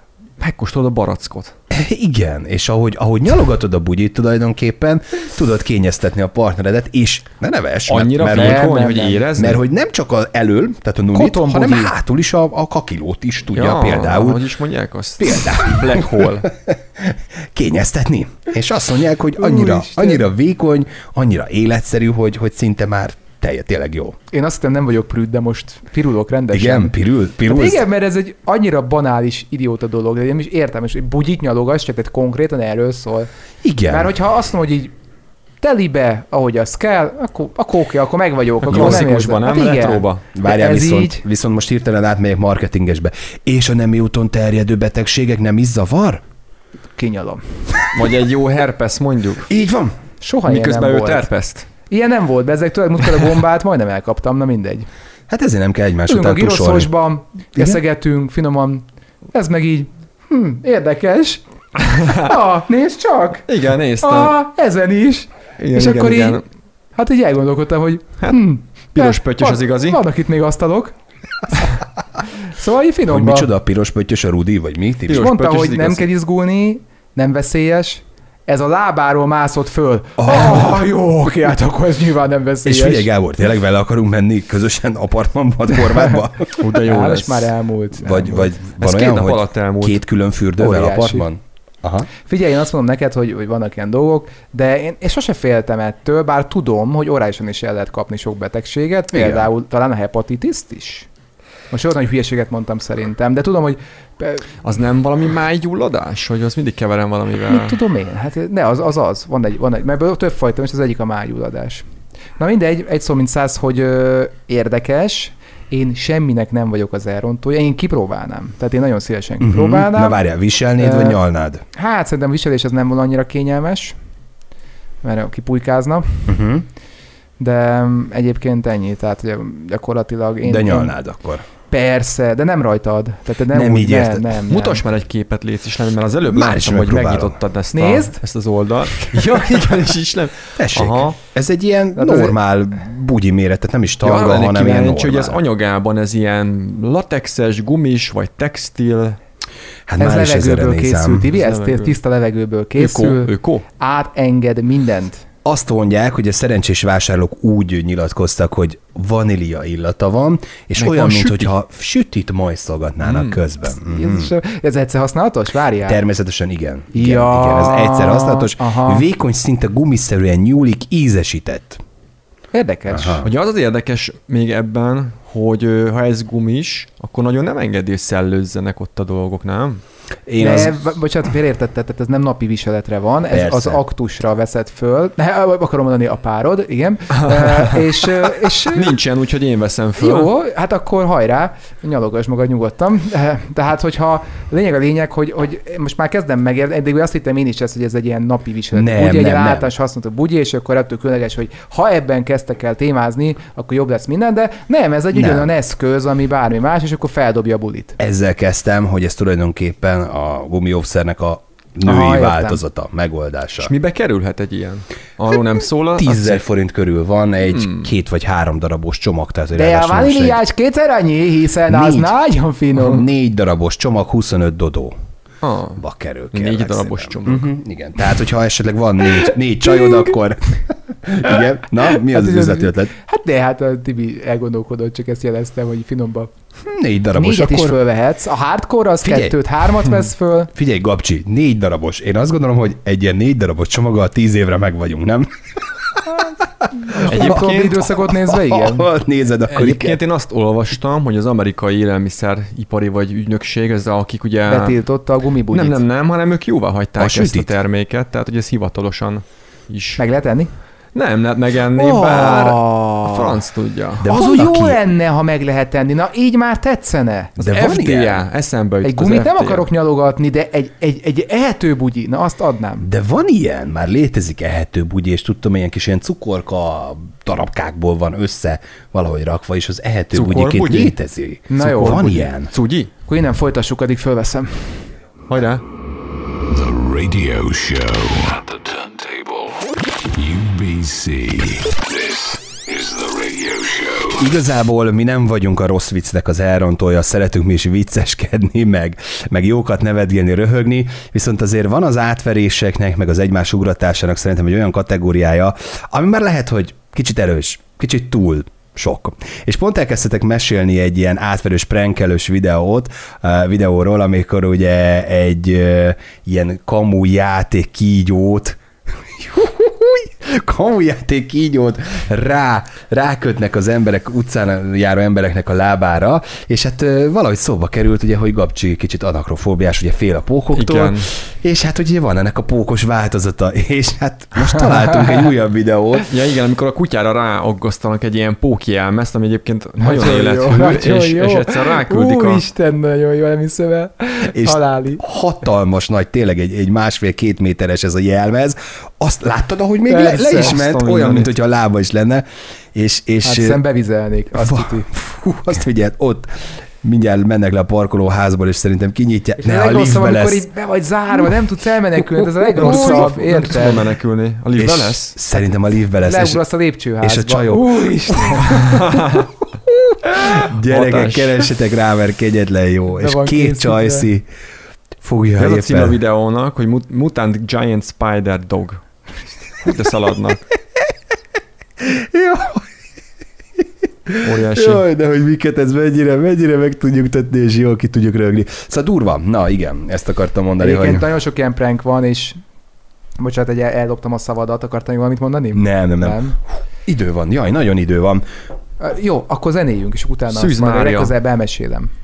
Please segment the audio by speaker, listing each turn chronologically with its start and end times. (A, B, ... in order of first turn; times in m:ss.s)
0:00.4-0:01.5 A
0:01.7-0:14.4 B
0:07.9-0:09.6 A
0:08.3-0:09.2 C
0:11.1-0:11.9 C
0:13.5-0:16.5 A
0:15.2-0:24.2 B
0:19.4-0:20.2 C
0:24.3-0:33.3 C
0:26.5-0:27.8 B
0:33.6-0:34.1 B
0:33.9-0:34.9 C
0:35.6-0:41.2 C
0:38.7-0:40.2 A
0:38.7-0:39.0 B
0:40.3-0:46.2 B
0:47.0-0:47.6 C
0:47.9-0:49.5 A
0:49.5-0:50.0 B
0:50.2-0:51.3 C
0:50.5-0:51.7 A
0:51.9-0:54.9 C
0:55.3-0:56.9 B
0:56.1-1:03.5 C
1:01.9-1:02.2 A
1:03.5-1:04.4 A
1:04.0-1:06.4 C
1:05.6-1:06.4 A
1:07.0-1:10.9 C
1:09.0-1:10.0 A
1:12.5-1:13.5 C
1:13.1-1:15.3 B
1:15.1-1:16.1 A
1:15.1-1:23.1 C
1:20.2-1:20.8 B
1:22.7-1:26.6 B
1:26.6-1:27.5 A
1:26.8-1:28.5 C
1:28.0-1:32.1 B
1:28.7-1:30.0 A
1:30.6-1:31.3 C
1:32.2-1:41.1 C
1:39.1-1:39.5 B
1:41.7-1:44.5 C
1:44.6-1:47.8 A
1:47.5-1:51.8 C
1:52.4-2:00.2 C
1:59.4-2:01.6 B
2:00.8-2:01.2 C
2:01.7-2:04.0 C
2:05.0-2:06.4 C
2:06.3-2:06.6 B
2:07.4-2:11.0 C
2:10.4-2:11.4 B
2:11.7-2:14.8 C
2:13.5-2:14.3 B
2:14.5-2:21.2 A
2:16.3-2:17.4 B
2:17.7-2:18.2 C
2:20.6-2:25.4 B
2:22.0-2:22.4 C
2:24.0-2:29.2 A
2:29.9-2:31.3 B
2:30.0-2:35.2 C
2:31.4-2:32.0 A
2:32.8-2:33.6 A
2:35.4-2:44.3 B
2:40.8-2:41.5 A
2:43.0-2:43.4 A
2:43.7-2:46.0 C
2:45.8-2:51.8 B
2:46.9-2:49.0 C
2:52.5-2:53.2 C
2:52.9-2:53.3 B
2:53.2-2:59.8 A
3:00.3-3:00.8 B
3:00.4-3:09.0 C
3:03.3-3:03.8 B
3:07.2-3:07.8 A
3:08.7-3:10.3 A
3:10.0-3:28.0 C
3:18.7-3:19.7 B
3:25.1-3:25.5 B
3:28.0-3:33.7 B
3:31.8-3:32.6 C
3:33.6-3:36.4 A
3:36.0-3:40.4 B
3:37.5-3:37.9 A
3:39.6-3:43.0 C
3:41.7-3:42.1 B
3:42.8-3:45.0 B
3:45.4-3:47.5 A
3:45.8-3:52.9 B
3:51.9-3:56.3 C
3:56.6-3:57.8 B
3:57.2-4:00.5 C
3:59.0-3:59.4 B
4:00.5-4:05.3 B
4:05.9-4:06.5 B
4:06.8-4:08.9 C
4:07.0-4:07.8 A
4:07.1-4:07.4 B
4:08.0-4:10.0 B
4:09.5-4:14.8 A
4:14.5-4:15.8 C
4:15.5-4:20.0 A
4:17.0-4:17.5 B
4:20.0-4:20.5 C
4:20.9-4:24.0 A
4:21.8-4:23.4 C
4:24.0-4:24.8 B
4:24.0-4:27.4 C
4:27.4-4:29.7 A
4:27.4-4:28.2 B
4:28.8-4:32.9 C
4:32.8-4:42.5 B
4:40.1-4:40.9 A
4:41.5-4:42.3 C
4:41.7-4:42.9 A
4:43.1-4:44.9 C
4:45.3-4:45.6 A
4:46.5-4:54.3 D
4:54.2-5:36.1 B
5:30.5-5:31.1 A
5:36.1-5:42.4 A
5:39.8-5:45.0 C
5:44.3-5:53.6 B
5:49.9-5:50.5 C
5:50.0-5:51.3 A
5:53.2-5:54.9 C
5:54.4-6:00.4 B
5:59.4-6:03.8 C
6:02.6-6:03.1 B
6:02.6-6:05.2 A
6:04.6-6:06.4 B
6:06.0-6:09.0 C
6:07.0-6:08.6 B
6:08.8-6:09.3 A
6:09.5-6:14.3 B
6:10.1-6:11.5 A
6:13.0-6:14.1 C
6:15.0-6:16.0 B
6:15.4-6:18.8 A
6:19.5-6:20.4 A
6:21.8-6:22.7 B
6:24.1-6:31.1 B
6:24.2-6:24.8 A
6:30.6-6:32.4 C
6:33.2-6:36.4 C
6:35.6-6:36.2 B
6:36.8-6:38.2 B
6:38.8-6:41.9 C
6:40.3-6:41.1 A